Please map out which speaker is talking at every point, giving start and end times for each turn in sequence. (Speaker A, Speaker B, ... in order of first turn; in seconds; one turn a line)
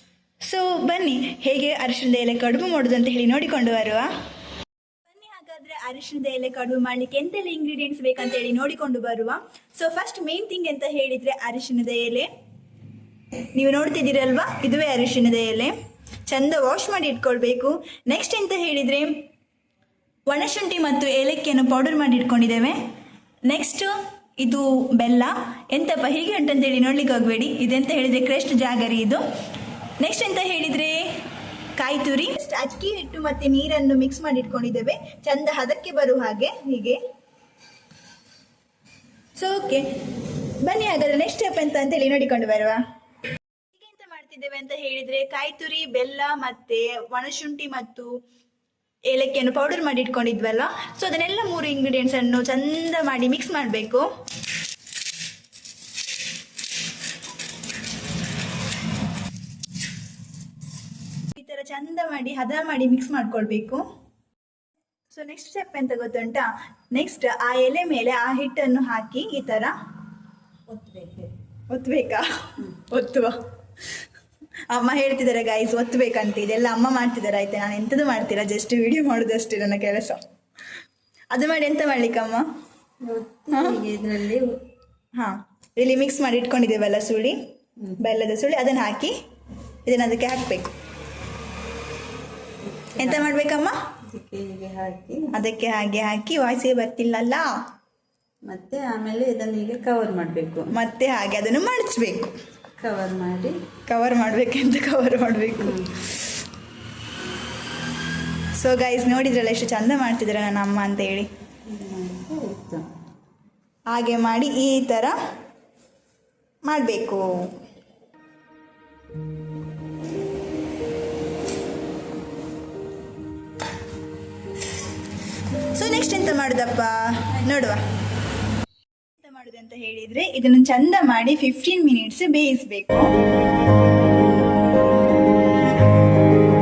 Speaker A: 0.4-4.1
Speaker A: 5.1-12.3
Speaker A: 13.5-15.8
Speaker A: 16.3-19.3
Speaker A: 20.3-22.8
Speaker A: 23.5-29.2
Speaker A: 30.0-31.2
Speaker A: 31.8-37.0
Speaker A: 39.4-42.8
Speaker A: 43.7-48.2
Speaker A: 49.1-54.1
Speaker A: 61.3-63.9
Speaker A: 65.1-69.7
Speaker B: 70.7-71.3
Speaker A: 71.7-73.4
Speaker A: 74.7-80.2
Speaker A: 81.3-82.5
Speaker B: 83.0-84.6
Speaker A: 83.5-83.8
Speaker A: 85.2-87.5
Speaker A: 88.0-89.2
Speaker A: 89.8-90.7
Speaker B: 92.6-93.3
Speaker A: 93.0-93.8
Speaker B: 94.1-95.3
Speaker A: 95.3-97.6
Speaker B: 98.5-100.7
Speaker A: 100.7-102.3
Speaker B: 102.8-103.6
Speaker A: 103.9-105.8
Speaker B: 105.6-105.9
Speaker A: 108.5-111.3
Speaker B: 111.7-112.9
Speaker A: 113.9-115.2
Speaker A: 116.7-117.5
Speaker A: 125.6-127.8
Speaker A: 129.2-133.2